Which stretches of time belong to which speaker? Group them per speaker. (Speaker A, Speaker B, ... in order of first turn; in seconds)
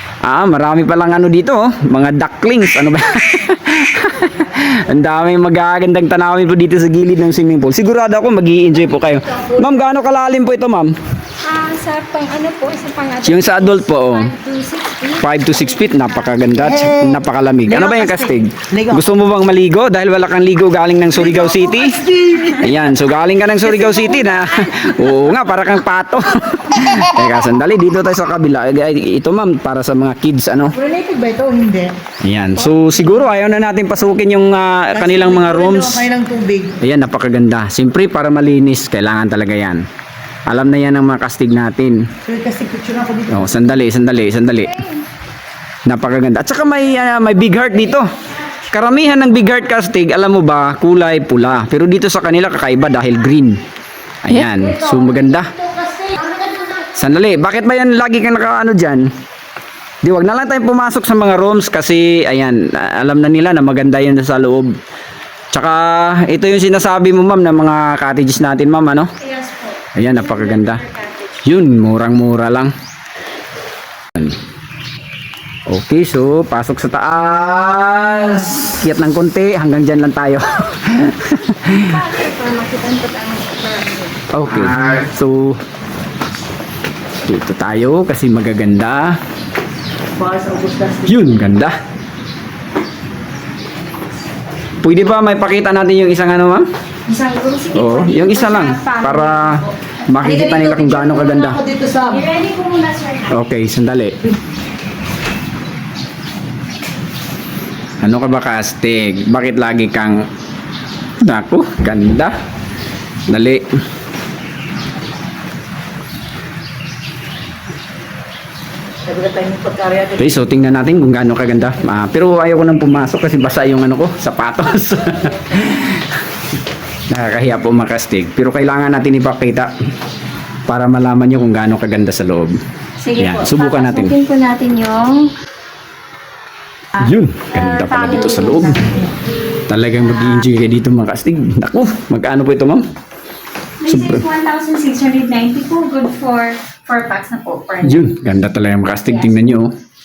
Speaker A: 0.2-10.9, 13.2-14.3, 15.2-22.0, 22.6-30.7, 32.2-36.0, 36.8-39.8, 40.5-42.0, 43.3-44.7, 45.9-48.1, 48.7-53.6, 54.2-55.5, 56.9-59.1, 60.0-64.7, 65.5-69.1, 70.0-70.8, 71.4-72.7, 75.7-81.9, 84.3-85.6, 87.2-89.2, 91.1-91.8, 94.8-96.6, 97.7-101.6, 103.3-104.2, 108.0-110.2, 111.2-112.3, 113.3-113.6, 120.2-126.2, 127.1-129.7, 130.7-132.5, 133.2-134.1, 137.0-138.8, 139.7-142.8, 143.9-144.2, 147.8-149.7
Speaker B: 8.9-9.8, 11.4-16.4, 69.2-71.5, 81.7-84.2, 97.1-99.6, 102.0-103.5, 133.0-135.3, 136.9-139.1, 143.8-148.0, 149.1-149.4
Speaker C: 16.6-19.1, 21.1-22.8, 23.6-24.9, 30.7-31.9, 34.9-36.8, 42.2-43.6, 55.9-56.7, 90.2-91.3, 100.2-102.3, 119.0-120.2